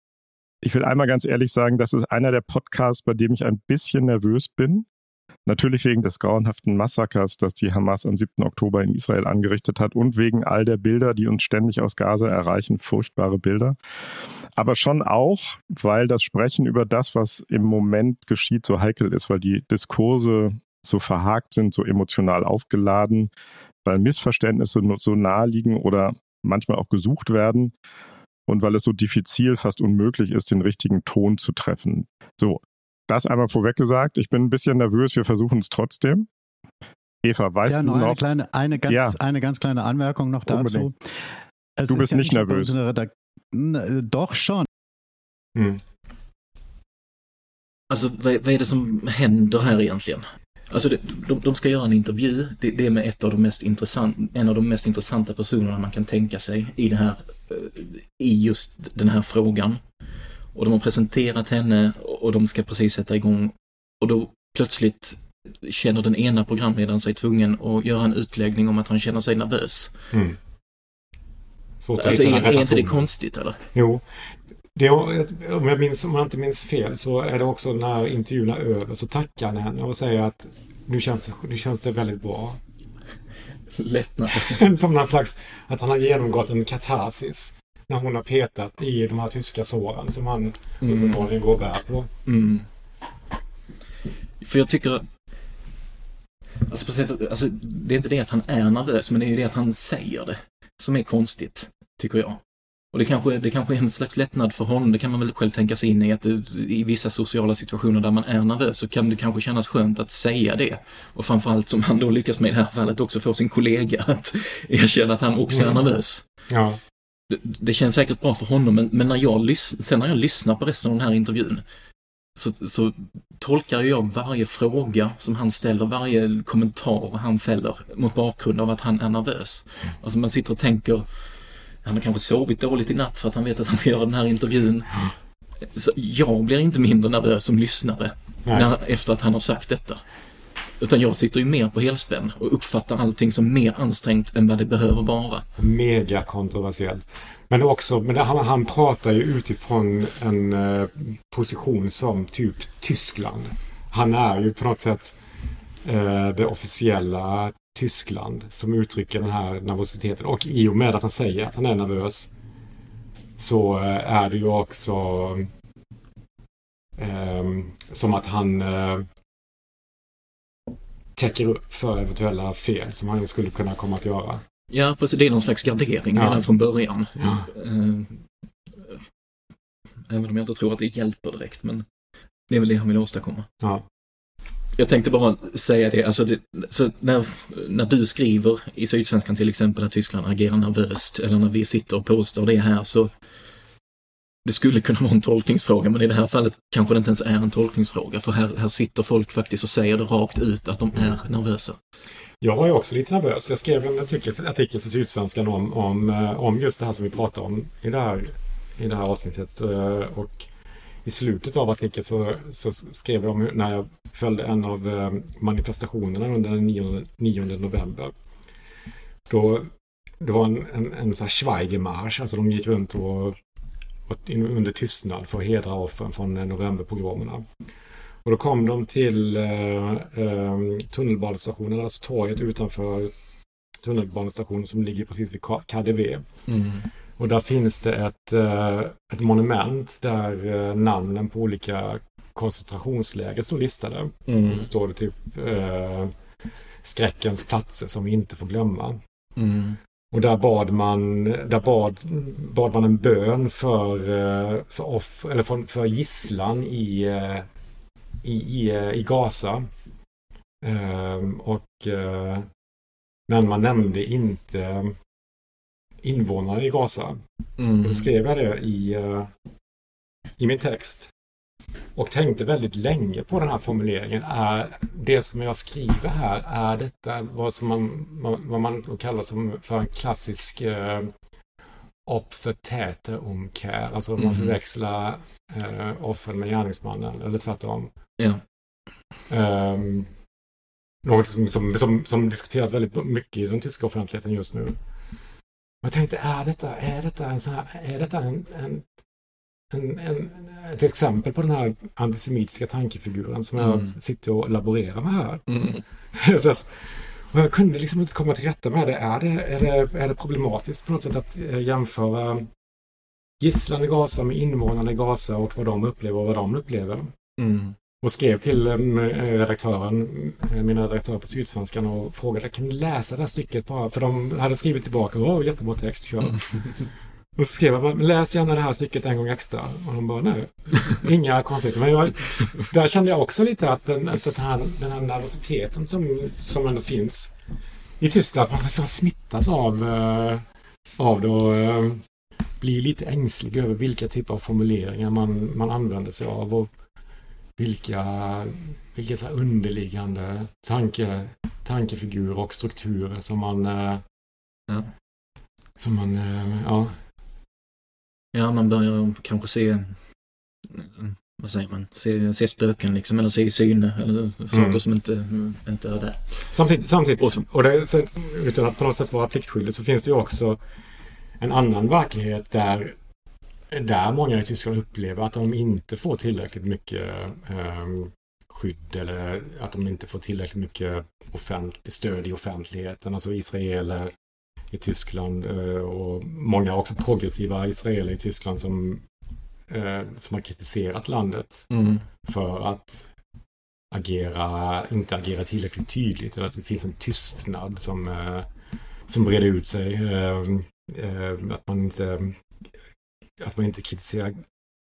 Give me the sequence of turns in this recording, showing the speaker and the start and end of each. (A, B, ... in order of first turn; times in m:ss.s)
0:00.6-0:04.9 A
0:05.4-0:13.8 A
0:14.6-0:23.3 A
0:23.8-0:27.7 A
0:28.5-0:36.3 A
0:37.2-0:38.2 A
0:37.6-0:40.9 B
0:38.9-0:39.2 A
0:40.4-0:40.9 A
0:41.8-0:44.7 B
0:41.9-0:42.7 A
0:45.6-0:45.8 C
0:47.9-0:59.8 D
1:00.5-1:09.9 D
1:10.1-1:10.4 C
1:11.8-1:13.1 C
1:12.0-1:13.6 D
1:13.7-1:14.0 C
1:14.7-1:22.6 C
1:23.7-1:24.6 D
1:24.3-1:32.1 C
1:30.8-1:31.3 D
1:32.3-1:32.7 D
1:34.4-1:35.0 D
1:36.7-1:42.4 D
1:42.9-1:56.2 D
1:55.5-1:56.0 C
1:56.5-1:56.8 C
1:57.3-2:01.6 D
2:02.3-2:11.3 D
2:11.8-2:20.0 D
2:18.4-2:18.7 C
2:20.8-2:25.4 D
2:25.6-2:35.2 C
2:35.8-2:42.3 C
2:43.4-2:45.5 C
2:47.0-2:49.0 C
2:51.2-2:54.4 C
2:54.7-2:59.0 D
2:56.1-2:56.4 C
2:57.2-2:57.5 C
3:00.1-3:01.8 D
3:02.5-3:03.5 D
3:03.6-3:03.9 C
3:04.8-3:13.1 D
3:14.4-3:21.8 D
3:22.4-3:30.5 C
3:31.0-3:38.1 C
3:39.3-3:43.4 C
3:44.1-3:47.5 C
3:48.2-3:53.1 C
3:53.8-3:56.2 C
3:56.5-3:56.9 D
3:57.2-4:06.1 C
4:04.3-4:04.7 D
4:06.8-4:09.0 C
4:09.4-4:09.8 D
4:10.1-4:17.4 C
4:18.2-4:19.7 C
4:20.6-4:22.4 C
4:23.3-4:25.0 C
4:26.0-4:27.2 C
4:27.6-4:28.1 D
4:27.8-4:29.3 C
4:30.4-4:31.1 C
4:31.9-4:41.1 C
4:42.0-4:47.9 C
4:44.2-4:44.6 D
4:49.3-4:50.1 C
4:51.0-4:54.8 C
4:55.8-4:58.9 C
4:59.7-5:05.6 C
5:03.6-5:04.0 D
5:05.5-5:05.8 D
5:06.1-5:12.5 C
5:13.4-5:17.1 C
5:17.4-5:17.8 D
5:18.0-5:37.3 C
5:26.2-5:26.9 D
5:38.0-5:40.4 C
5:41.0-5:42.0 C
5:42.6-5:46.7 C
5:47.6-5:54.0 C
5:55.8-5:57.0 C
5:58.3-6:00.1 D
6:00.7-6:06.5 D
6:04.5-6:04.8 C
6:06.5-6:10.6 C
6:07.2-6:07.4 D
6:11.4-6:13.0 C
6:13.7-6:24.1 C
6:24.7-6:29.0 C
6:29.7-6:31.7 C
6:31.7-6:32.0 D
6:32.2-6:33.1 C
6:33.9-6:38.5 C
6:39.1-6:42.4 C
6:43.4-6:44.4 C